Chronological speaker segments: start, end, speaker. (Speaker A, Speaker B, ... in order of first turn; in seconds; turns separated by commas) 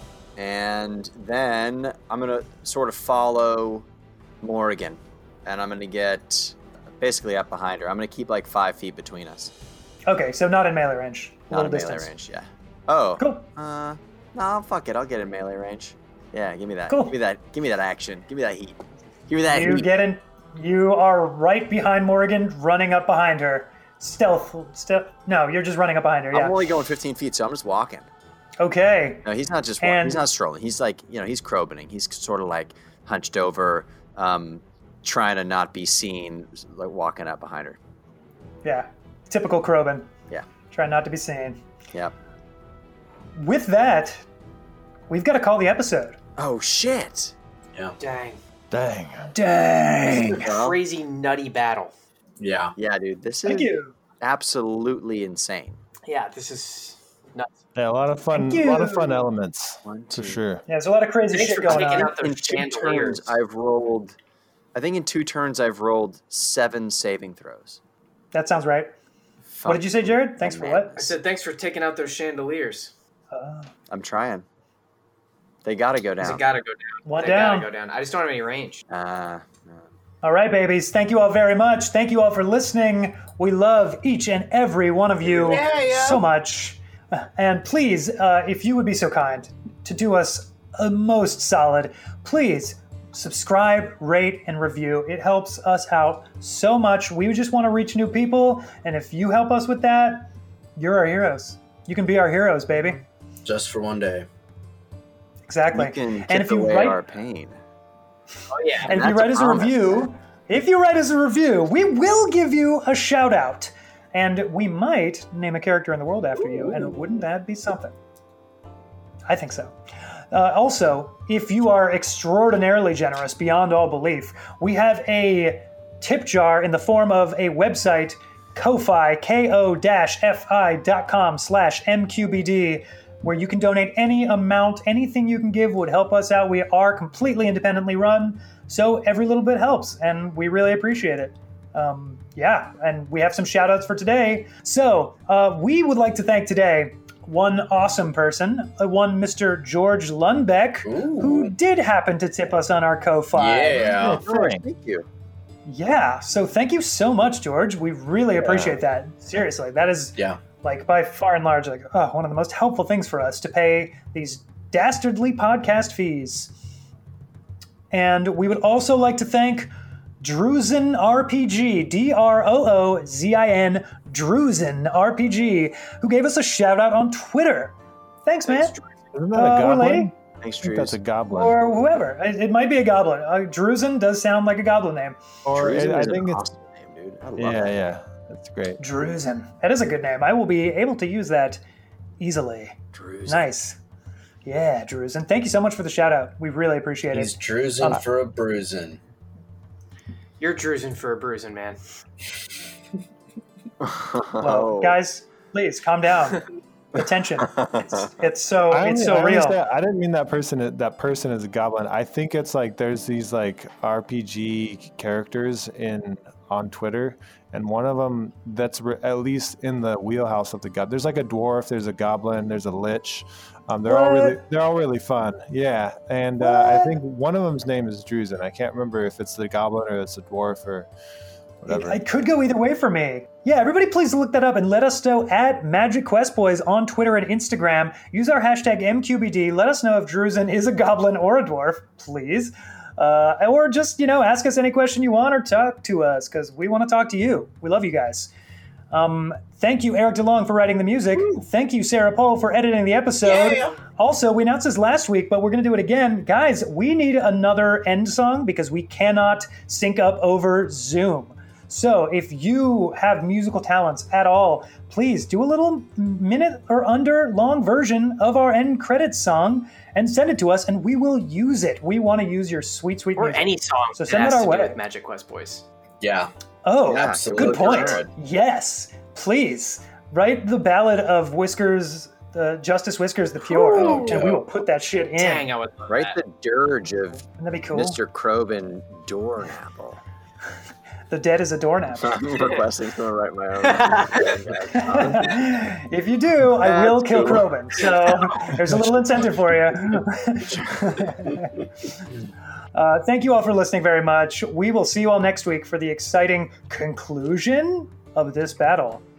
Speaker A: 0.4-3.9, Speaker A: 4.4-9.5, Speaker B: 10.1-12.1, Speaker A: 11.5-19.9, Speaker B: 13.2-13.5, Speaker B: 16.9-17.1, Speaker B: 19.5-26.6, Speaker A: 26.3-28.1, Speaker B: 28.6-29.2, Speaker A: 29.2-37.8, Speaker B: 29.8-30.3, Speaker B: 38.6-40.1, Speaker B: 40.7-41.6, Speaker B: 43.4-44.2, Speaker B: 45.1-46.2, Speaker A: 46.4-47.3, Speaker C: 48.0-48.4, Speaker D: 48.7-49.3, Speaker B: 49.3-50.5, Speaker A: 50.4-50.8, Speaker C: 50.4-51.9, Speaker E: 52.4-52.8, Speaker A: 52.8-55.8, Speaker B: 53.5-54.0, Speaker C: 56.1-57.5, Speaker D: 57.8-60.6, Speaker B: 58.3-59.3, Speaker A: 59.9-60.4, Speaker B: 60.7-62.1, Speaker C: 61.3-63.3, Speaker A: 61.7-64.2, Speaker A: 64.8-67.8, Speaker B: 68.3-68.9, Speaker A: 69.5-71.2, Speaker B: 69.7-71.0, Speaker C: 71.0-72.9, Speaker B: 73.3-73.7, Speaker A: 73.9-74.5, Speaker A: 75.6-76.4, Speaker C: 76.2-78.8, Speaker B: 77.0-77.7, Speaker A: 78.9-79.8, Speaker B: 80.2-103.0, Speaker E: 85.2-86.2, Speaker E: 103.5-104.3, Speaker B: 105.5-107.0, Speaker A: 105.7-107.6, Speaker C: 108.5-108.9, Speaker A: 108.7-110.1, Speaker B: 108.9-117.9, Speaker B: 119.3-119.8, Speaker B: 120.3-153.9, Speaker E: 150.8-151.5, Speaker E: 153.3-154.2, Speaker D: 154.0-154.6, Speaker A: 154.0-155.1, Speaker B: 155.7-166.5, Speaker D: 158.4-158.8, Speaker B: 167.9-177.8, Speaker B: 178.3-178.8, Speaker C: 178.5-178.9, Speaker D: 179.1-181.6, Speaker B: 179.3-180.1, Speaker A: 180.4-181.0, Speaker B: 181.3-185.2, Speaker D: 185.5-186.5, Speaker A: 185.5-187.7, Speaker D: 187.4-188.8, Speaker B: 188.8-191.6, Speaker B: 192.2-193.8, Speaker A: 192.9-193.5, Speaker B: 194.4-197.3, Speaker E: 197.1-199.0, Speaker C: 200.4-201.8, Speaker A: 203.8-205.0, Speaker B: 204.4-209.6, Speaker A: 207.4-208.1, Speaker D: 208.7-230.9, Speaker B: 223.9-224.4, Speaker B: 226.4-227.0, Speaker D: 231.6-232.0, Speaker B: 231.7-248.3, Speaker B: 248.9-274.8, Speaker E: 253.2-253.8, Speaker C: 273.2-275.6, Speaker E: 276.0-276.3, Speaker B: 276.6-285.5, Speaker E: 276.9-278.1, Speaker A: 276.9-278.1, Speaker E: 283.7-284.4, Speaker C: 285.2-286.2, Speaker A: 285.9-290.0, Speaker B: 287.4-288.0, Speaker B: 291.1-292.4, Speaker A: 292.0-295.5, Speaker C: 293.6-294.4, Speaker B: 294.7-301.6, Speaker A: 296.6-298.6, Speaker A: 300.8-301.2, Speaker B: 302.8-309.0